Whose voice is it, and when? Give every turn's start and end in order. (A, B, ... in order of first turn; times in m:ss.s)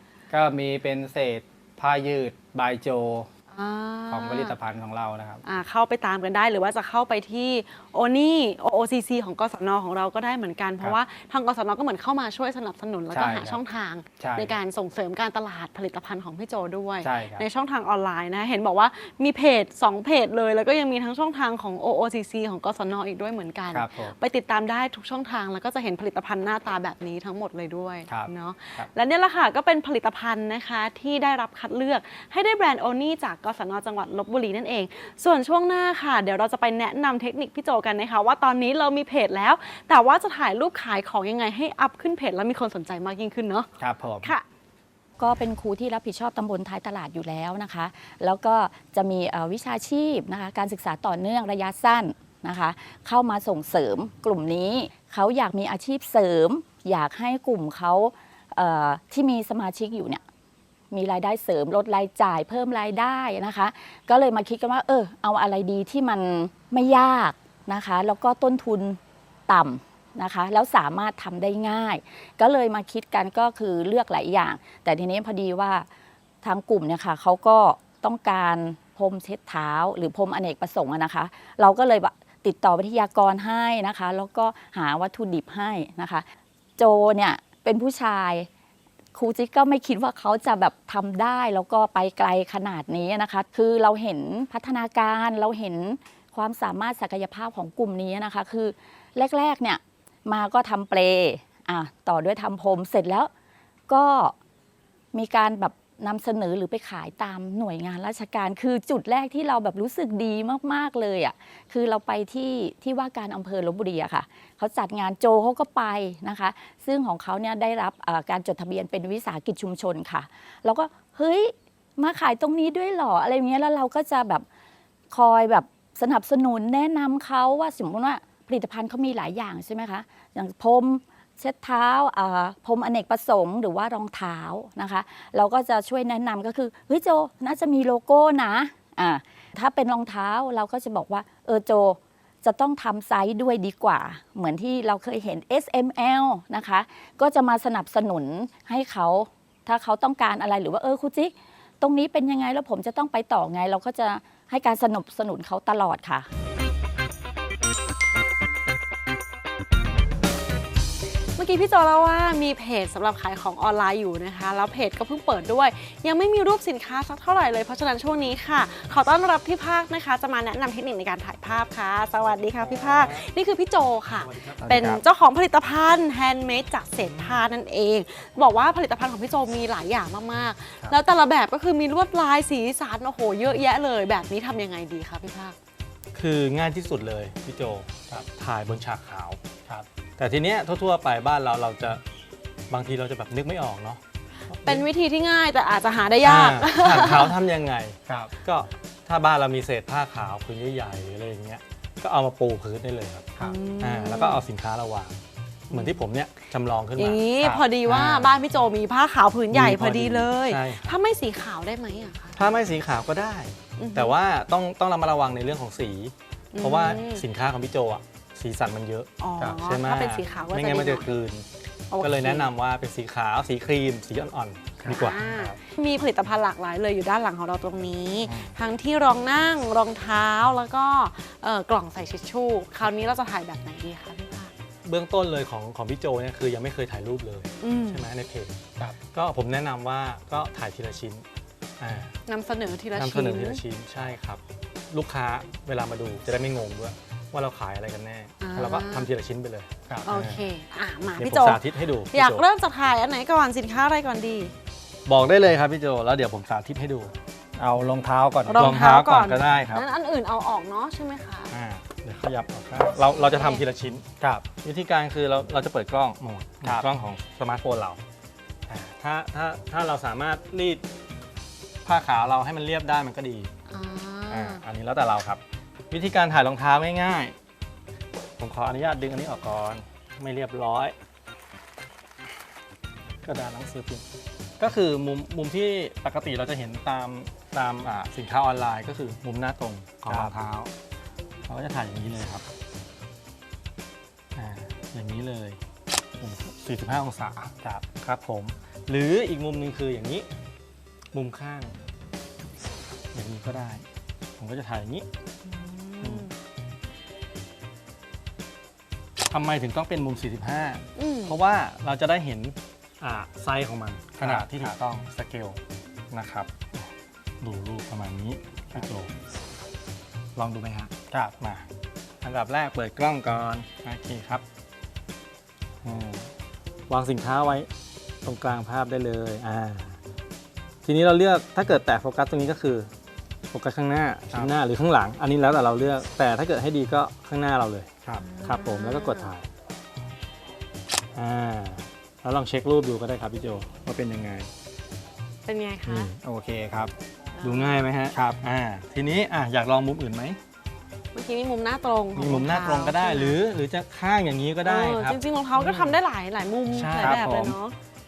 0:00.3-0:03.3 A
0:03.5-0:04.5 B
0:04.1-0:05.4 A
0:05.4-0:43.7 B
0:13.1-0:13.6 A
0:14.2-0:14.6 A
0:17.0-0:17.4 A
0:23.7-0:24.1 A
0:28.1-0:28.9 A
0:43.8-0:44.3 A
0:45.2-1:00.2 C
1:00.9-1:15.9 C
1:16.4-1:26.2 C
1:26.8-1:28.5 C
1:29.1-1:43.3 C
1:43.9-1:44.3 C
1:45.1-2:04.4 C
2:05.1-2:36.3 C
2:41.4-3:05.6 B
2:52.2-2:53.2 D
2:54.2-2:55.0 D
2:54.6-2:55.0 A
2:57.0-2:57.4 D
3:06.1-3:09.4 D
3:10.2-3:12.0 D
3:12.7-3:14.0 D
3:14.5-3:14.8 D
3:14.5-3:17.4 B
3:16.2-3:25.2 D
3:18.1-3:18.3 A
3:23.4-3:24.4 B
3:25.7-3:27.3 D
3:25.7-3:26.0 B
3:27.0-3:32.4 B
3:27.8-3:28.4 D
3:29.5-3:31.0 D
3:32.4-3:41.4 D
3:33.8-3:34.2 B
3:36.5-3:37.2 B
3:39.2-3:41.1 B
3:41.9-3:42.5 B
3:42.0-3:45.5 D
3:44.8-3:54.5 B
3:48.2-3:48.5 D
3:54.8-4:01.2 D
3:57.6-3:58.1 B
4:01.8-4:02.2 D
4:02.3-4:03.6 B
4:02.9-4:10.4 D
4:08.4-4:09.1 B
4:10.0-4:14.5 B
4:11.2-4:12.4 D
4:15.0-4:17.1 D
4:17.6-4:18.8 A
4:18.4-4:21.5 B
4:18.5-4:19.9 D
4:21.5-4:28.0 D
4:23.1-4:23.6 B
4:24.2-4:24.5 A
4:28.7-4:30.8 D
4:31.8-4:33.5 D
4:33.7-4:34.6 B
4:34.3-4:37.3 D
4:38.4-4:40.9 D
4:43.2-4:44.0 D
4:44.6-4:50.7 D
4:50.1-4:50.3 A
4:51.4-4:52.4 D
4:54.3-4:55.6 D
4:56.2-5:00.3 D
5:01.1-5:01.8 D
5:03.1-5:03.8 D
5:04.4-5:05.1 D
5:05.4-5:06.3 B
5:06.0-5:06.3 D
5:09.3-5:15.6 D
5:11.0-5:11.4 B
5:14.2-5:14.8 A
5:16.1-5:16.9 D
5:17.4-5:19.1 D
5:20.3-5:21.6 D
5:22.2-5:24.4 D
5:25.8-5:26.3 D
5:26.9-5:27.7 D
5:28.2-5:30.0 D
5:30.8-5:32.9 D
5:33.5-5:39.5 D
5:38.2-5:39.3 B
5:41.1-5:44.5 D
5:45.4-5:46.1 B
5:45.8-5:46.2 D
5:46.2-5:46.9 A
5:47.4-5:47.9 B
5:47.4-5:50.4 D
5:48.1-5:48.4 A
5:51.1-5:53.4 B
5:52.1-5:56.0 D
5:54.6-5:57.7 B
5:56.7-5:57.6 D